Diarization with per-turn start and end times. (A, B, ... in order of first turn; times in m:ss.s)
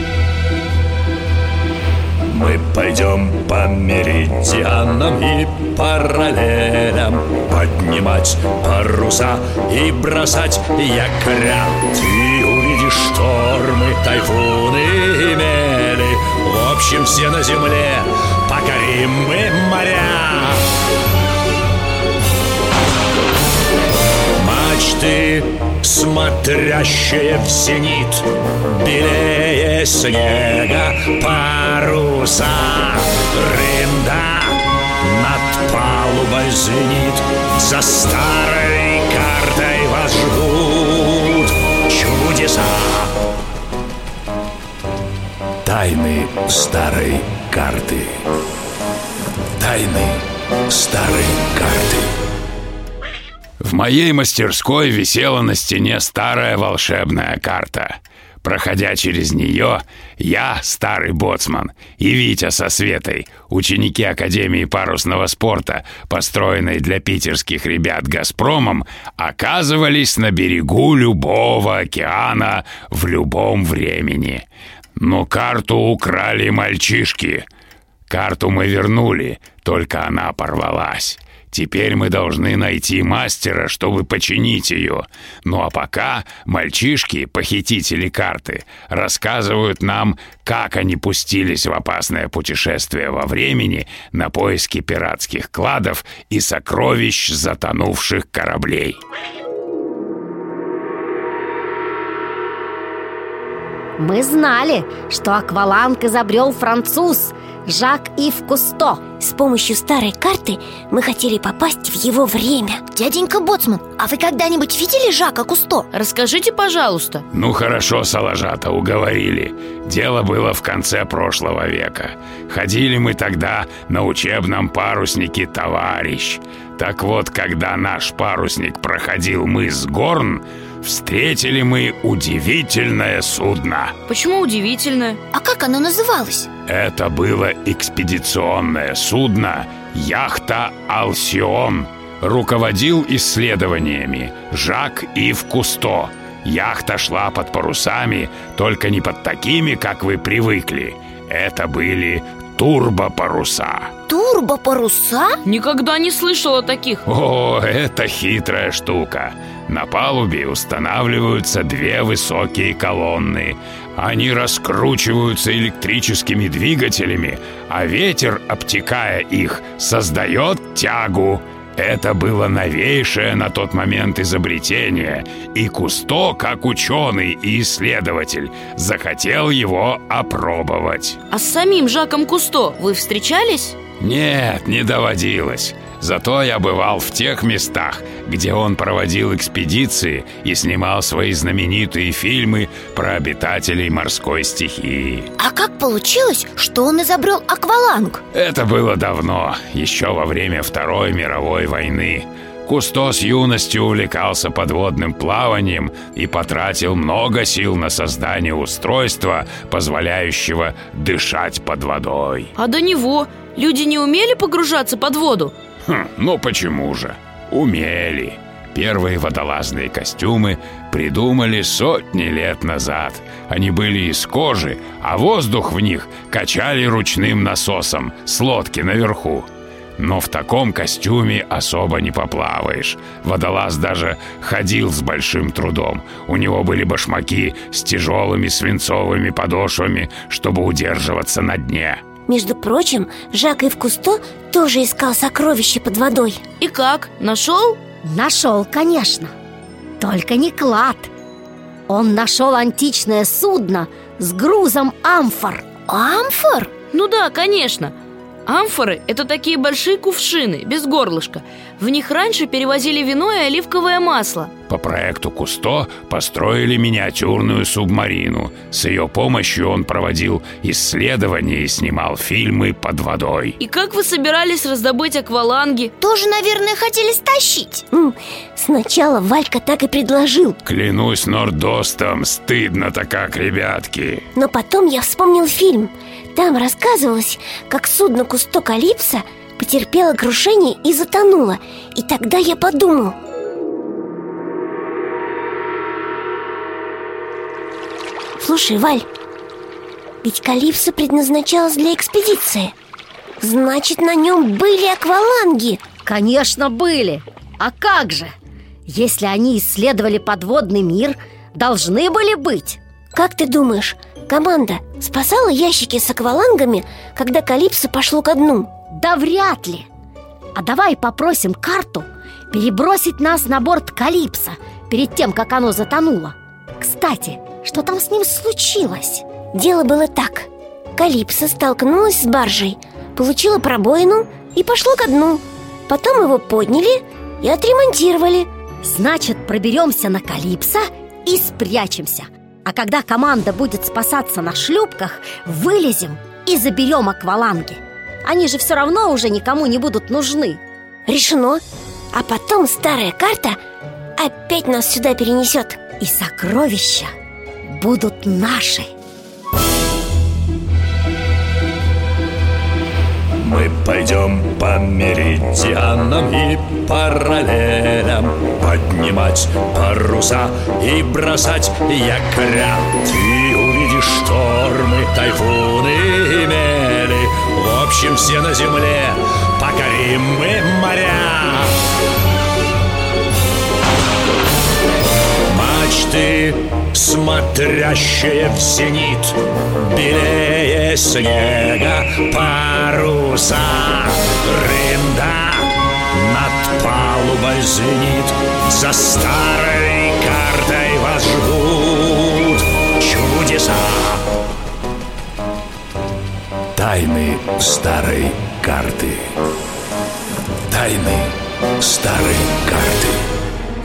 0:02.3-0:20.6 A
0:24.4-0:43.1 A
0:45.6-0:48.2 A
0:49.6-0:52.1 A
0:53.6-1:14.4 B
1:15.0-1:17.4 B
1:18.1-1:39.0 B
1:44.0-1:49.0 C
1:49.2-1:52.8 D
1:52.9-1:55.9 E
1:55.9-1:57.2 F
1:57.3-2:13.9 B
2:14.1-2:15.2 F
2:15.3-2:16.5 E
2:16.7-2:33.9 B
2:34.1-2:35.4 E
2:35.4-2:37.0 F
2:37.1-3:01.2 B
3:01.3-3:03.8 F
3:04.0-3:15.3 B
3:15.4-3:18.2 E
3:18.3-3:32.5 B
3:32.6-3:35.5 F
3:35.9-4:02.0 B
4:02.3-4:06.4 D
4:06.6-4:07.8 F
4:08.1-4:09.3 C
4:10.0-4:11.1 C
4:11.9-4:15.6 C
4:15.9-4:16.7 E
4:16.9-4:17.9 F
4:18.4-4:24.5 F
4:24.7-4:33.6 B
4:33.6-4:35.9 F
4:36.0-4:37.8 E
4:37.9-4:40.6 D
4:40.6-4:44.2 B
4:44.4-4:53.2 D
4:58.4-4:59.0 D
5:00.2-5:02.7 D
5:03.4-5:05.8 D
5:06.0-5:08.3 C
5:08.9-5:12.8 C
5:13.1-5:18.7 D
5:19.0-5:19.8 C
5:20.6-5:29.2 C
5:29.5-5:38.5 D
5:38.8-5:50.6 C
5:51.0-5:53.6 D
5:54.2-5:55.8 D
5:56.0-5:57.1 C
5:57.6-5:58.9 C
6:03.4-6:21.8 A
6:25.5-6:44.2 A
6:46.8-6:49.2 A
6:50.7-6:53.1 A